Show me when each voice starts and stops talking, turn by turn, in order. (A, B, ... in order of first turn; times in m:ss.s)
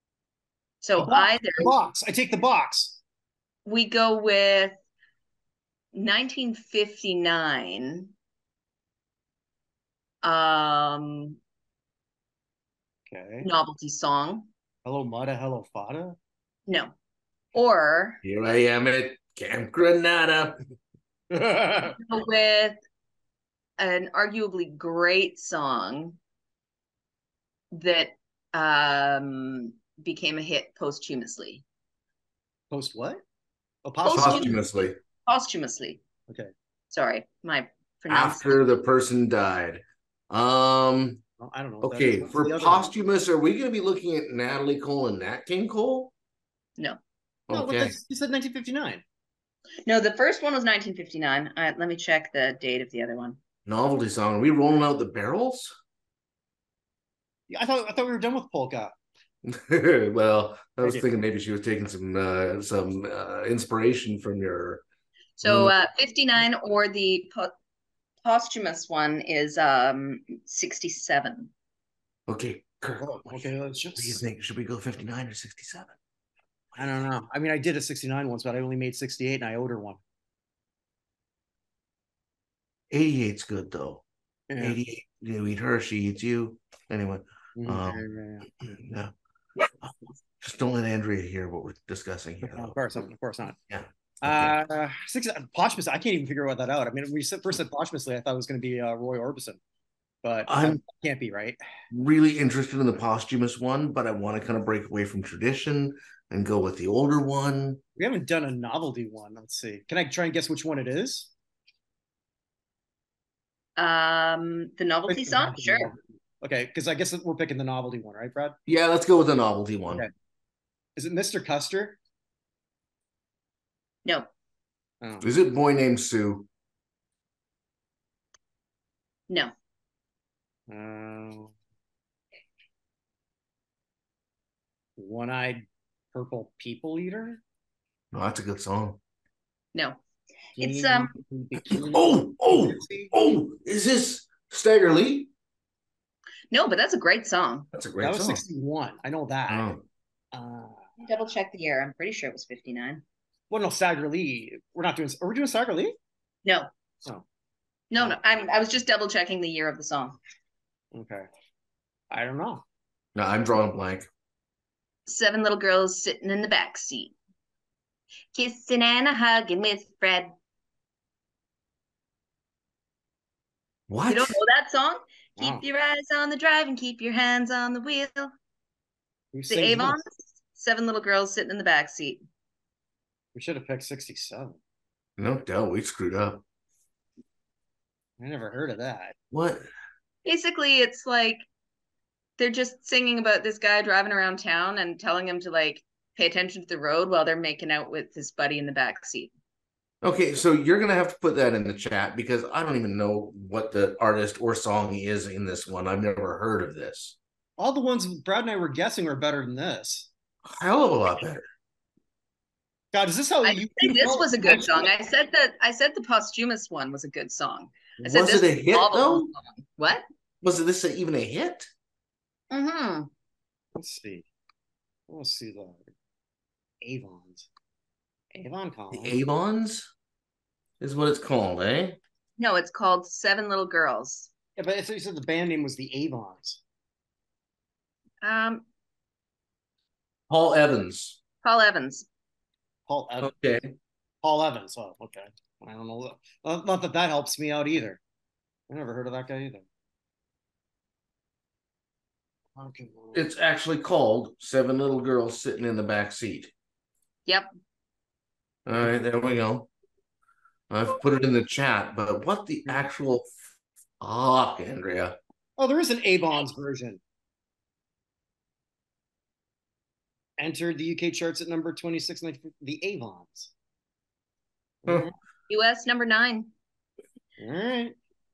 0:00.8-0:01.7 A
0:01.0-0:03.0 B
0:03.6-0:04.8 A
0:05.9-0:08.1 A
0:10.2-0:11.4 A
0:13.1-0:13.5 B
0:13.4-0:14.5 A
0:14.8-0:16.2 B
0:16.7-0:16.9 A
0:17.5-0:18.2 A
0:18.2-0:20.6 C
0:21.3-0:22.0 B
0:22.0-0:22.8 A
0:23.8-0:26.2 A
0:27.7-0:31.6 A
0:32.7-0:33.2 B
0:33.8-0:34.6 B
0:34.0-0:36.0 A
0:34.1-0:35.0 C
0:36.9-0:38.6 A
0:38.1-0:41.2 C
0:41.4-0:42.9 B
0:41.8-0:46.1 C
0:47.5-0:48.0 C
0:47.5-0:49.0 B
0:49.8-0:53.4 A
0:53.6-0:55.7 C
0:57.5-0:58.9 B
0:59.4-1:04.8 C
1:05.4-1:07.5 A
1:05.4-1:05.7 C
1:08.2-1:11.5 A
1:12.3-1:15.9 C
1:13.0-1:14.2 B
1:16.8-1:20.0 B
1:22.9-1:24.0 C
1:24.5-1:24.8 B
1:24.6-1:28.0 C
1:27.6-1:28.5 B
1:28.6-1:32.8 C
1:32.4-1:33.6 B
1:33.7-1:34.5 C
1:34.2-1:39.6 B
1:40.2-1:41.6 B
1:40.5-1:40.8 C
1:41.9-1:47.8 C
1:48.0-1:51.3 B
1:53.8-1:55.9 A
1:55.1-1:58.6 B
1:58.7-2:00.0 C
2:01.0-2:02.0 B
2:05.0-2:05.3 B
2:05.2-2:06.5 C
2:10.7-2:11.5 B
2:15.0-2:17.4 B
2:18.1-2:19.0 C
2:19.7-2:20.0 A
2:20.6-2:21.1 A
2:20.6-2:23.1 B
2:21.7-2:25.3 C
2:26.5-2:27.7 A
2:27.7-2:28.4 C
2:28.0-2:29.7 B
2:29.5-2:29.8 C
2:30.3-2:30.9 B
2:31.0-2:33.0 A
2:33.5-2:35.9 B
2:37.9-2:40.2 A
2:40.9-2:41.2 B
2:42.1-2:42.6 B
2:43.1-2:44.1 C
2:45.0-2:47.2 A
2:48.3-2:50.3 A
2:53.9-2:54.4 C
2:54.1-2:58.3 A
2:55.4-2:55.6 B
2:59.3-3:00.0 B
2:59.5-3:02.2 A
3:03.3-3:04.6 B
3:05.2-3:06.4 C
3:08.2-3:09.2 B
3:09.3-3:09.6 C
3:10.2-3:11.4 A
3:12.4-3:19.3 A
3:20.0-3:27.2 C
3:27.6-3:30.1 B
3:30.4-3:31.4 C
3:32.9-3:34.9 B
3:33.4-3:40.0 A
3:38.0-3:39.3 C
3:40.4-3:41.7 C
3:42.5-3:43.1 A
3:43.7-3:44.2 B
3:45.1-3:45.8 B
3:46.8-3:47.5 B
3:48.3-3:49.2 B
3:48.9-3:49.9 C
3:50.8-3:52.0 C
3:52.4-3:54.3 A
3:54.6-3:56.6 B
3:58.2-3:58.6 A
4:00.3-4:01.2 C
4:01.4-4:02.1 A
4:02.9-4:03.3 B
4:03.2-4:03.7 C
4:04.2-4:08.0 B
4:08.7-4:09.6 B
4:12.6-4:13.2 B
4:13.1-4:16.5 C
4:18.6-4:19.7 C
4:20.7-4:23.3 C
4:24.0-4:25.2 C
4:25.6-4:27.0 B
4:30.4-4:33.5 B
4:34.8-4:35.1 B
4:35.5-4:36.5 A
4:37.4-4:37.9 B